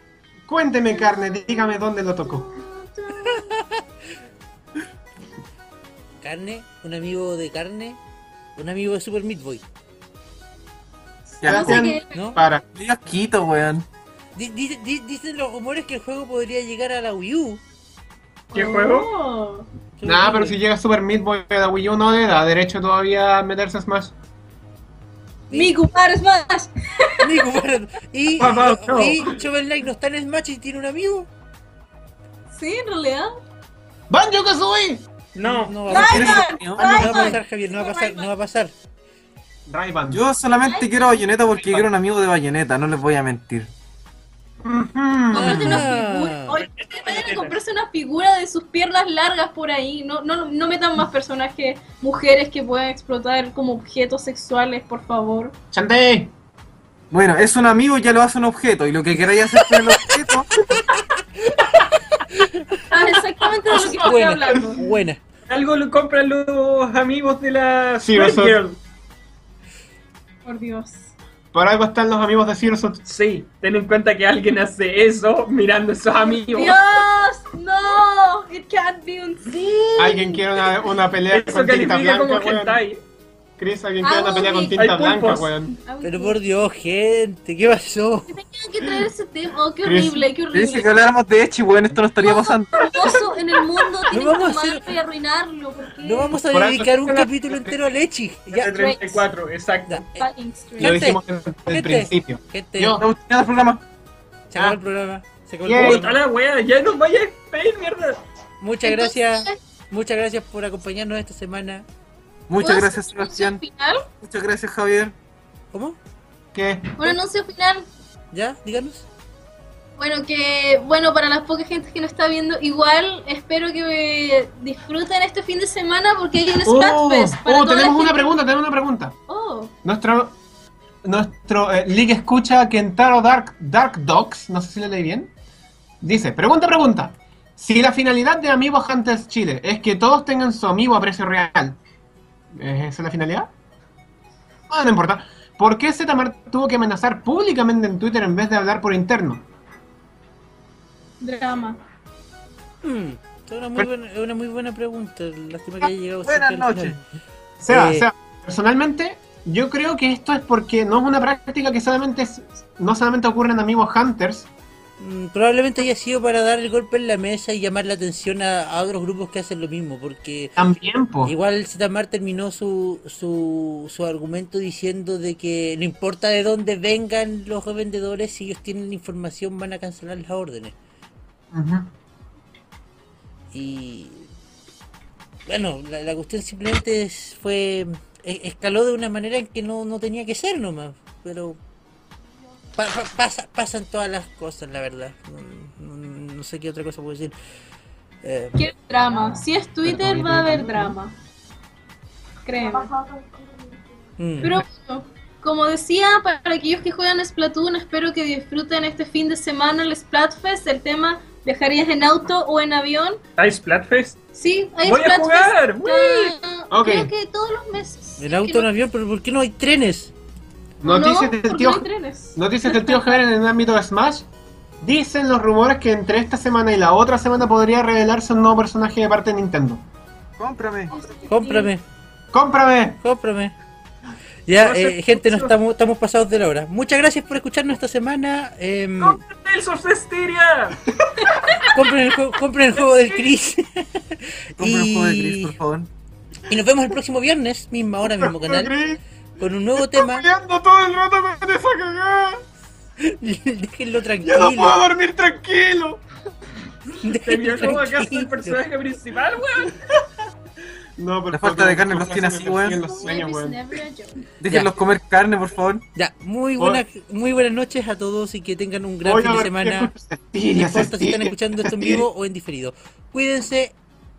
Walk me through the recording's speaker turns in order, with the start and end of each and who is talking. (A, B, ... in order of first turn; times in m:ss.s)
0:00.5-0:02.5 A
0:01.2-0:01.4 B
0:02.4-0:03.6 B
0:03.2-0:03.8 C
0:06.2-0:08.0 C
0:08.6-0:09.6 C
0:11.3-0:12.6 A
0:11.4-0:12.0 D
0:11.5-0:12.4 B
0:12.1-0:12.4 C
0:12.7-0:13.9 D
0:14.4-0:17.6 C
0:18.5-0:19.7 B
0:18.5-0:19.1 E
0:20.0-0:20.6 C
0:20.0-0:24.1 A
0:25.5-0:27.5 B
0:25.5-0:25.8 C
0:27.2-0:31.3 C
0:28.4-0:29.4 E
0:32.5-0:33.3 B
0:34.1-0:35.0 A
0:35.4-0:35.8 E
0:35.4-0:38.7 C
0:35.8-0:38.3 B
0:35.9-0:37.3 D
0:39.7-0:40.2 A
0:40.1-0:43.7 D
0:40.6-0:41.3 B
0:44.6-0:45.8 A
0:45.3-0:55.6 B
0:45.3-0:46.6 C
0:46.6-0:47.6 E
0:55.7-0:56.3 A
0:57.1-1:00.5 D
1:02.2-1:03.1 C
1:02.9-1:04.8 B
1:03.7-1:05.2 C
1:05.5-1:08.8 E
1:08.0-1:08.6 A
1:10.4-1:11.1 B
1:11.5-1:13.0 A
1:13.0-1:17.0 E
1:16.1-1:20.9 B
1:20.0-1:22.8 A
1:21.3-1:23.0 E
1:23.6-1:25.7 A
1:24.0-1:24.8 B
1:24.8-1:25.6 E
1:25.7-1:26.4 B
1:26.0-1:28.4 C
1:28.3-1:30.9 B
1:29.8-1:30.3 A
1:30.5-1:33.1 D
1:32.2-1:36.4 B
1:34.1-1:34.9 C
1:36.0-1:38.7 C
1:36.5-1:37.8 A
1:38.5-1:40.0 E
1:38.6-1:39.2 B
1:39.9-1:40.3 C
1:40.2-1:41.0 B
1:40.8-1:43.0 C
1:40.8-1:43.0 A
1:43.0-1:43.8 D
1:44.5-1:46.1 C
1:45.6-1:46.1 A
1:45.8-1:48.2 E
1:48.6-1:51.9 C
1:48.8-1:49.6 B
1:52.5-1:53.6 D
1:52.6-1:54.0 B
1:54.2-1:55.2 D
1:55.7-1:56.0 C
1:56.5-1:57.1 A
1:57.0-1:57.9 B
1:58.3-1:59.1 C
2:00.0-2:08.4 B
2:06.6-2:09.2 A
2:09.3-2:09.7 B
2:09.8-2:10.4 A
2:11.0-2:15.3 A
2:16.0-2:21.8 A
2:22.5-2:23.5 A
2:24.7-2:29.4 A
2:31.2-2:31.8 B
2:32.8-2:37.0 C
2:35.8-2:37.2 D
2:37.6-2:44.5 A
2:37.7-2:38.1 C
2:45.0-2:50.6 C
2:50.6-2:51.3 A
2:51.2-3:00.8 C
3:01.5-3:01.9 A
3:03.5-3:04.3 C
3:05.5-3:11.6 C
3:12.8-3:17.3 C
3:18.2-3:18.7 C
3:18.6-3:21.2 B
3:19.8-3:21.0 C
3:22.4-3:23.3 B
3:24.2-3:24.6 C
3:24.4-3:33.2 B
3:33.4-3:34.2 E
3:34.4-3:38.7 B
3:34.8-3:36.4 E
3:36.7-3:37.1 A
3:38.2-3:40.1 C
3:40.8-3:44.3 A
3:40.8-3:43.2 B
3:44.8-3:49.8 A
3:50.4-3:51.0 D
3:50.9-3:51.7 B
3:51.3-3:51.8 C
3:52.3-3:53.0 A
3:53.0-3:53.6 C
3:54.5-3:59.2 C
3:54.6-3:55.6 E
3:59.0-4:00.9 E
4:01.2-4:01.9 B
4:01.7-4:05.6 C
4:04.6-4:05.9 D
4:06.5-4:08.8 C
4:08.1-4:09.0 A
4:09.4-4:10.3 C
4:09.8-4:12.4 A
4:13.0-4:14.8 C
4:14.2-4:16.0 A
4:17.0-4:18.6 C
4:17.1-4:19.8 E
4:21.0-4:23.7 A
4:21.3-4:22.9 D
4:22.8-4:24.3 B
4:24.4-4:25.8 D
4:26.0-4:29.9 C
4:29.0-4:32.1 A
4:30.5-4:33.8 C